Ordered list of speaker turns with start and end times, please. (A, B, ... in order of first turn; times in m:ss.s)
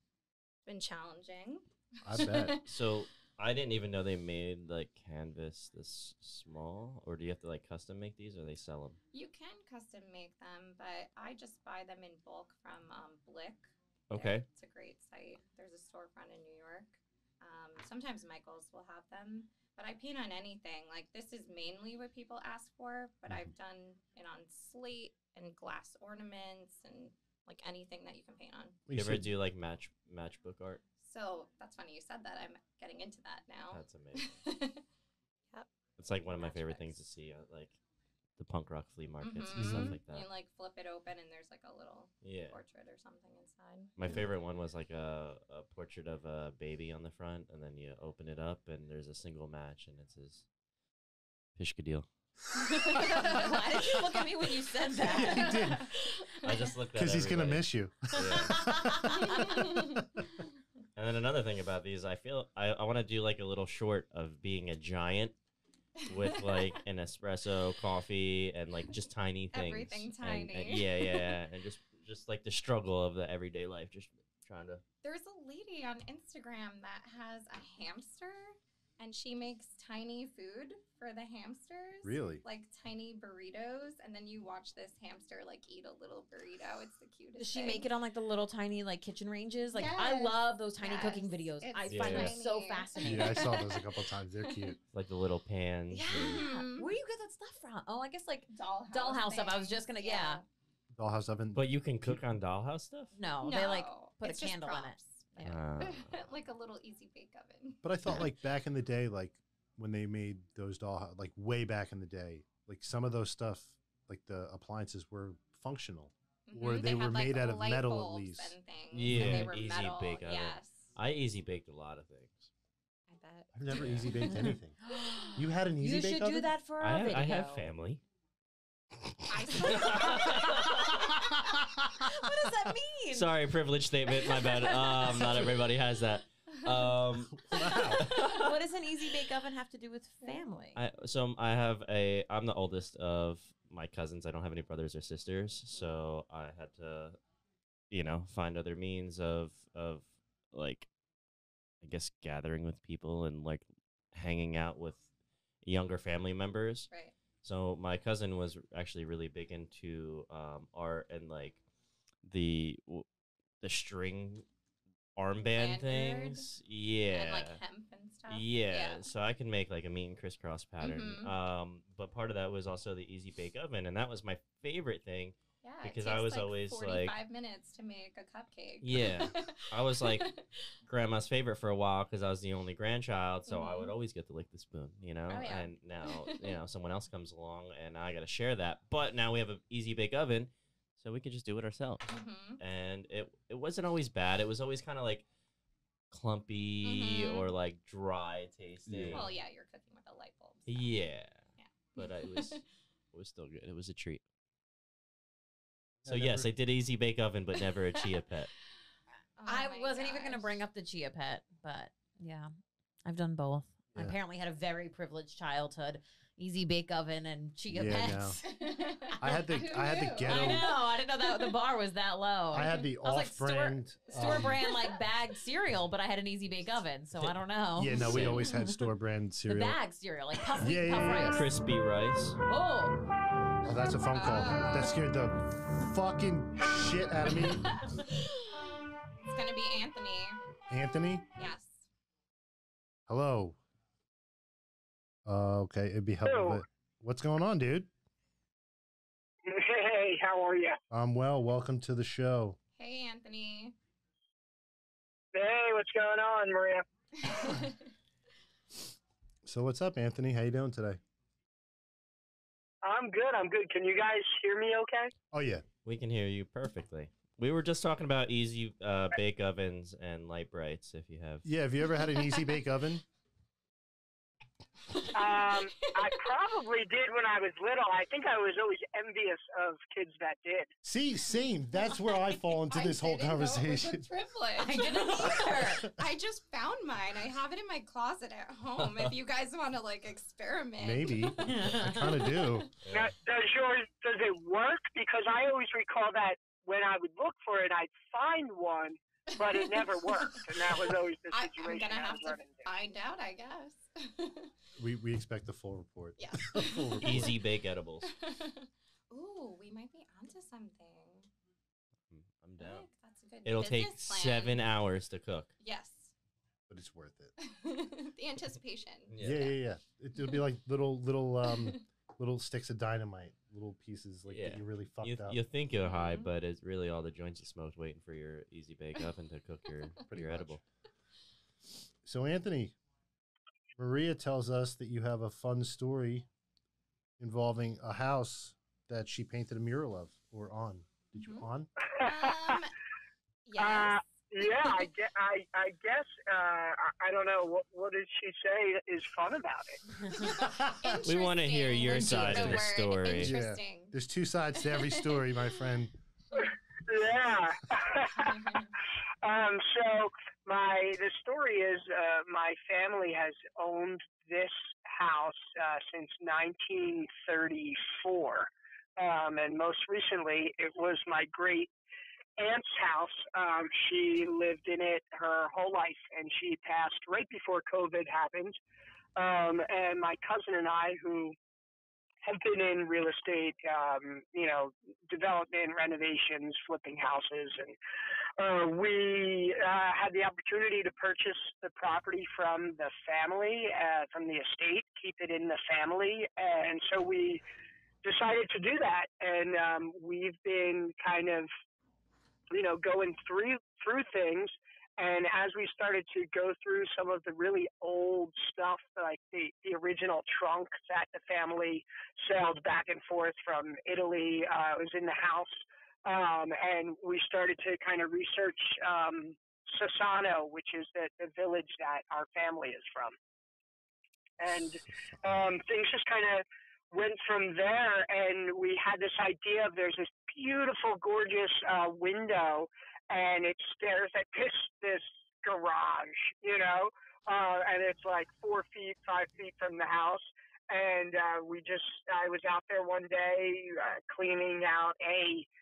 0:00.7-0:02.7 A
0:02.0-0:02.6 B
0:02.6-0:09.0 C
0:09.1-0:28.8 A
0:14.1-0:14.4 C
0:28.9-0:29.3 B
0:28.9-0:30.8 C
0:31.0-0:34.8 A
0:33.7-0:34.4 C
0:36.0-0:37.8 C
0:36.4-0:36.9 A
0:38.4-0:40.3 C
0:39.2-0:44.2 A
0:39.5-0:40.0 B
0:42.2-0:42.6 C
0:44.0-0:50.4 C
0:51.6-0:52.1 C
0:52.7-0:53.4 A
0:53.2-0:55.6 D
0:55.0-0:55.9 B
0:55.1-0:56.6 A
0:56.4-0:58.6 C
0:56.9-1:00.2 B
0:59.2-1:00.1 A
1:01.0-1:05.4 C
1:06.1-1:14.8 C
1:06.1-1:06.7 A
1:09.5-1:11.3 A
1:15.0-1:27.9 A
1:22.0-1:22.4 B
1:27.4-1:33.6 D
1:29.7-1:34.8 A
1:31.9-1:32.4 C
1:33.0-1:34.8 B
1:34.9-1:36.4 C
1:35.9-1:40.4 D
1:36.1-1:36.9 A
1:38.5-1:40.4 A
1:41.0-1:42.2 B
1:41.5-1:43.1 C
1:43.2-1:45.6 D
1:43.4-1:47.8 A
1:45.4-1:46.2 C
1:47.8-1:58.6 B
1:56.5-2:00.9 A
1:58.9-2:02.5 C
1:59.1-1:59.5 B
2:03.1-2:03.8 A
2:03.5-2:04.8 B
2:03.7-2:04.3 C
2:04.8-2:07.7 D
2:05.4-2:06.5 B
2:06.8-2:08.0 C
2:09.3-2:11.1 A
2:09.5-2:11.0 C
2:09.8-2:10.4 D
2:12.0-2:13.3 D
2:13.1-2:18.4 C
2:14.3-2:15.4 D
2:17.3-2:18.1 B
2:17.9-2:20.8 D
2:20.8-2:27.2 C
2:27.9-2:30.9 C
2:31.8-2:35.0 C
2:35.6-2:36.9 C
2:36.9-2:37.2 A
2:37.4-2:41.6 C
2:42.2-2:43.1 C
2:43.6-2:44.4 C
2:45.2-2:47.6 C
2:45.6-2:46.5 A
2:47.1-2:49.1 A
2:48.3-2:57.2 C
2:50.8-2:51.3 A
2:55.6-3:00.6 A
2:58.8-3:00.3 C
3:00.9-3:15.2 C
3:03.5-3:03.9 A
3:05.3-3:06.6 A
3:12.1-3:12.6 A
3:16.1-3:19.3 C
3:16.8-3:17.5 A
3:18.9-3:19.3 B
3:19.1-3:20.9 A
3:20.7-3:21.4 C
3:21.6-3:22.6 A
3:22.0-3:22.6 C
3:23.1-3:24.2 C
3:26.0-3:26.5 B
3:26.1-3:28.5 C
3:29.4-3:30.6 A
3:29.5-3:32.5 D
3:33.1-3:39.1 D
3:37.7-3:38.4 B
3:38.4-3:40.7 A
3:39.2-3:40.7 B
3:40.2-3:48.8 D
3:42.5-3:44.6 B
3:44.2-3:44.9 A
3:47.2-3:49.8 B
3:48.0-3:48.4 C
3:49.5-3:51.5 D
3:50.6-3:51.4 B
3:51.3-3:52.4 C
3:52.5-3:53.0 D
3:53.6-3:57.9 B
3:54.1-3:55.0 A
3:57.3-3:58.6 A
3:59.2-4:00.4 A
4:00.7-4:01.3 B
4:01.4-4:01.8 A
4:03.1-4:03.6 B
4:05.2-4:07.9 B
4:06.2-4:06.6 E
4:09.4-4:10.8 E
4:10.9-4:12.6 B
4:12.8-4:13.8 A
4:15.3-4:16.8 E
4:17.2-4:17.9 A
4:19.4-4:21.0 B
4:22.8-4:25.1 E
4:25.3-4:25.6 B
4:25.8-4:31.5 C
4:31.4-4:33.0 B
4:35.1-4:40.7 E
4:35.8-4:36.1 A
4:40.8-4:44.0 B
4:41.8-4:51.4 A
4:44.6-4:45.8 D
4:45.2-4:45.9 B
4:48.8-4:49.1 C
4:50.8-4:52.7 B
4:51.4-4:52.4 D
4:52.8-4:53.1 C
4:52.9-5:02.7 E
4:59.4-5:04.5 A
5:04.8-5:07.4 B
5:06.2-5:07.4 A
5:07.0-5:08.1 C
5:08.0-5:11.3 A
5:12.1-5:12.9 C
5:12.6-5:14.6 A
5:13.4-5:15.5 C
5:15.6-5:16.1 A
5:16.7-5:17.3 B
5:17.5-5:19.1 A
5:19.1-5:19.6 C
5:19.2-5:25.4 B
5:21.5-5:21.8 A
5:24.3-5:30.6 C
5:25.8-5:26.3 A
5:30.1-5:30.6 B
5:32.0-5:32.8 B
5:33.8-5:36.3 B
5:37.2-5:41.7 B
5:41.2-5:41.5 A
5:41.8-5:42.6 E
5:42.0-5:42.7 A
5:43.4-5:44.9 A
5:43.6-5:49.8 E
5:50.1-5:54.0 A
5:50.2-5:51.0 B
5:51.0-5:53.4 C
5:51.9-5:55.9 B
5:54.6-5:55.3 A
5:56.4-5:58.6 E
5:58.1-5:58.7 A
5:59.2-6:11.7 E
6:12.4-6:18.6 E
6:19.2-6:21.4 E
6:22.2-6:27.8 E
6:28.4-6:37.4 E
6:38.0-6:41.5 E
6:42.5-7:03.2 E
7:04.4-7:25.5 E
7:04.9-7:05.5 B